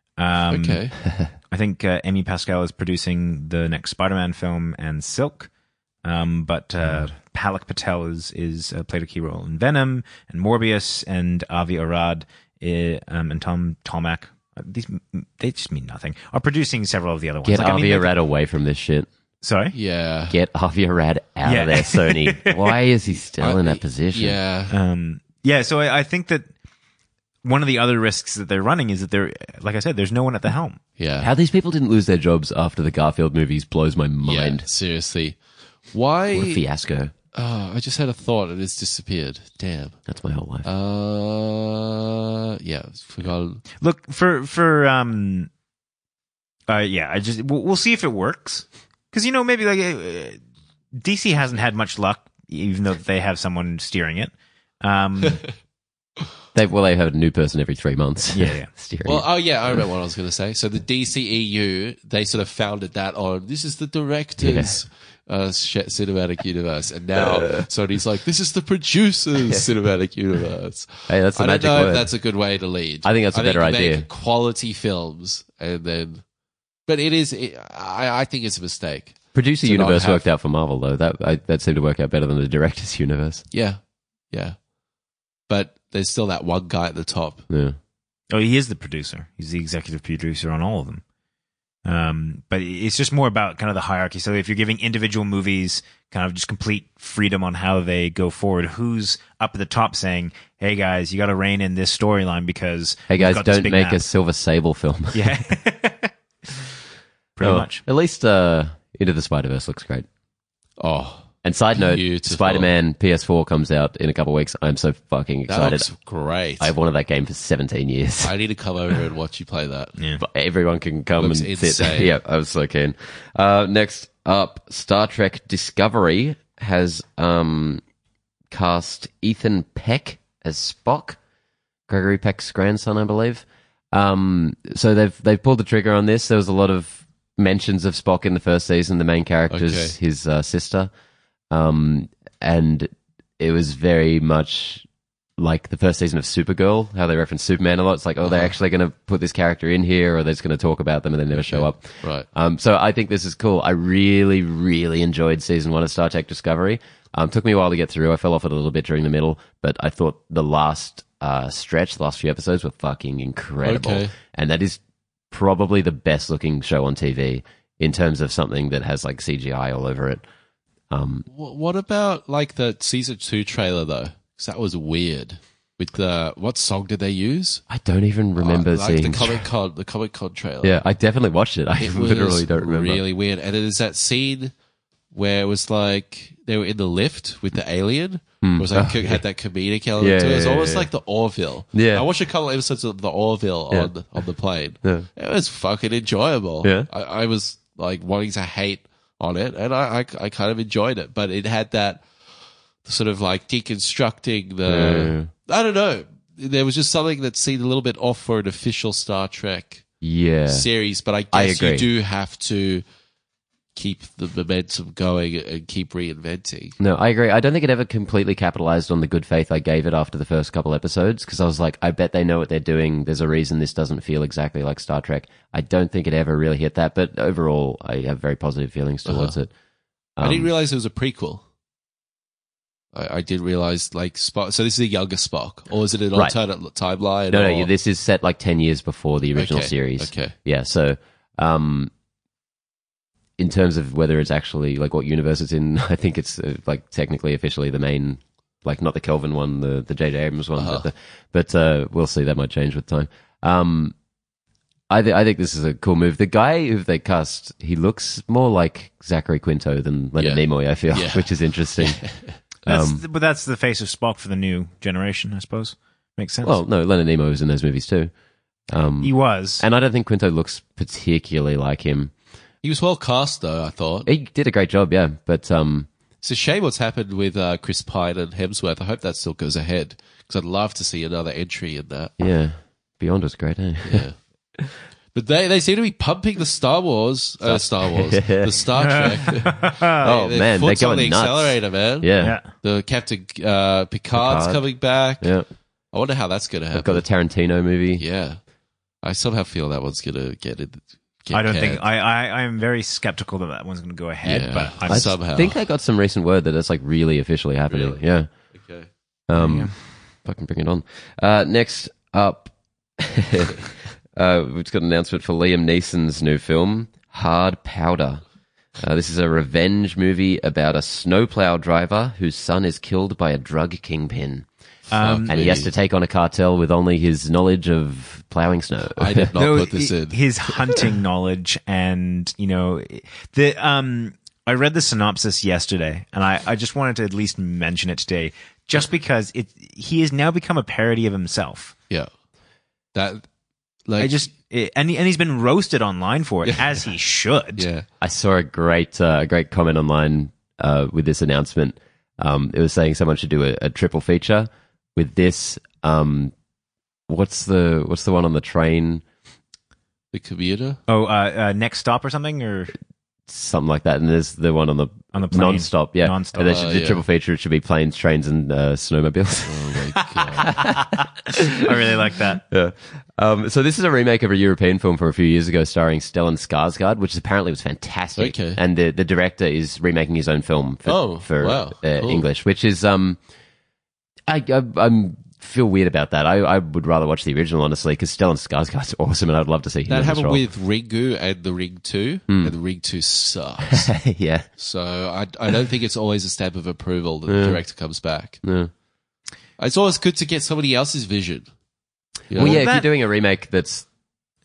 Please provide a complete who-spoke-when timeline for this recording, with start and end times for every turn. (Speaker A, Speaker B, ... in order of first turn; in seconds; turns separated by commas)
Speaker A: 0.2-5.5, Speaker B: 0.5-0.9, Speaker A: 6.0-18.1, Speaker C: 17.4-19.1, Speaker A: 19.4-19.7, Speaker B: 19.7-20.4, Speaker C: 20.3-24.4, Speaker A: 21.4-22.8, Speaker B: 23.4-24.7, Speaker A: 24.7-26.5, Speaker A: 27.4-30.8, Speaker B: 31.0-31.3, Speaker C: 31.2-34.6, Speaker B: 34.2-36.6, Speaker C: 36.3-37.1, Speaker B: 37.3-40.0, Speaker C: 40.1-40.7, Speaker B: 40.6-43.6, Speaker A: 43.8-45.5, Speaker A: 46.7-50.4, Speaker A: 50.9-55.4, Speaker C: 56.5-59.2, Speaker A: 58.3-58.7, Speaker B: 59.0-76.2, Speaker C: 64.4-64.8, Speaker C: 67.3-67.7, Speaker C: 71.1-72.1, Speaker C: 73.0-74.1, Speaker B: 76.8-80.3, Speaker C: 79.3-83.4, Speaker B: 83.5-84.6, Speaker B: 85.5-87.5, Speaker C: 87.5-87.8, Speaker A: 88.3-91.0, Speaker A: 91.8-104.0, Speaker C: 103.1-105.3, Speaker A: 105.1-106.1, Speaker A: 107.4-107.8, Speaker C: 107.4-110.0, Speaker B: 110.8-112.7, Speaker C: 111.4-115.9, Speaker B: 115.5-116.7, Speaker C: 116.6-118.3, Speaker B: 118.2-120.0, Speaker A: 120.0-120.2, Speaker C: 120.2-127.8, Speaker B: 121.2-122.1, Speaker C: 128.5-131.2, Speaker C: 131.9-140.9, Speaker B: 139.5-139.9, Speaker C: 141.5-144.8, Speaker C: 145.4-164.8, Speaker B: 148.2-148.5, Speaker B: 151.3-152.3, Speaker B: 163.6-164.1, Speaker C: 165.3-170.2, Speaker C: 170.9-171.2, Speaker B: 171.3-177.6, Speaker C: 177.7-179.4, Speaker B: 178.4-180.8, Speaker C: 180.6-183.0, Speaker B: 181.8-184.5, Speaker B: 185.1-202.1, Speaker C: 188.4-189.2, Speaker C: 190.0-190.9, Speaker C: 191.7-192.1, Speaker C: 196.6-196.9, Speaker B: 202.8-209.8, Speaker C: 204.7-205.3, Speaker C: 210.0-210.7, Speaker B: 210.5-212.8, Speaker C: 211.3-211.9, Speaker B: 213.7-216.8, Speaker C: 216.8-229.5, Speaker B: 229.1-229.4, Speaker C: 230.2-230.5, Speaker B: 230.2-231.4, Speaker B: 232.9-237.7, Speaker C: 237.3-241.9, Speaker B: 239.3-240.3, Speaker C: 243.4-253.9, Speaker B: 250.6-250.9, Speaker C: 254.9-262.0, Speaker B: 260.2-262.4, Speaker C: 262.6-263.0, Speaker A: 262.6-266.6, Speaker C: 266.4-268.1, Speaker C: 268.7-272.1, Speaker A: 269.0-269.6, Speaker B: 272.6-274.1, Speaker C: 274.1-275.9, Speaker B: 276.2-282.2, Speaker C: 282.2-284.1, Speaker B: 283.8-284.2, Speaker B: 285.1-295.3, Speaker C: 287.4-288.7, Speaker A: 288.8-289.9, Speaker C: 289.9-292.4, Speaker A: 292.2-292.5, Speaker C: 294.1-294.6, Speaker C: 295.2-295.4, Speaker B: 295.9-297.0, Speaker C: 296.7-298.0, Speaker B: 298.0-298.4, Speaker B: 299.0-301.8, Speaker A: 301.3-305.1, Speaker B: 304.2-305.6, Speaker C: 304.9-308.3, Speaker B: 307.7-308.0, Speaker B: 308.5-308.9, Speaker C: 309.3-318.2, Speaker A: 309.3-309.7, Speaker C: 318.8-324.5, Speaker A: 324.9-325.6, Speaker B: 324.9-325.7, Speaker C: 325.3-329.3, Speaker B: 329.0-330.8, Speaker A: 329.4-341.7, Speaker B: 342.9-343.3, Speaker B: 343.9-344.3, Speaker A: 344.0-347.6, Speaker B: 347.6-347.9, Speaker C: 348.0-356.3, Speaker C: 357.1-359.0, Speaker B: 360.1-360.8, Speaker A: 360.9-362.7, Speaker C: 363.3-369.7, Speaker A: 365.1-366.7, Speaker B: 366.5-367.0, Speaker B: 369.4-370.5, Speaker A: 370.4-370.6, Speaker C: 370.5-371.7, Speaker A: 371.5-372.4, Speaker C: 372.5-383.2, Speaker B: 378.2-378.6, Speaker B: 380.9-382.2, Speaker C: 384.3-390.4, Speaker B: 389.9-393.9, Speaker C: 392.3-392.5, Speaker C: 393.7-394.5, Speaker B: 394.6-398.4, Speaker C: 397.3-397.6, Speaker C: 398.4-398.7, Speaker B: 399.6-401.5, Speaker B: 402.3-402.6, Speaker C: 402.3-403.9, Speaker A: 402.4-402.9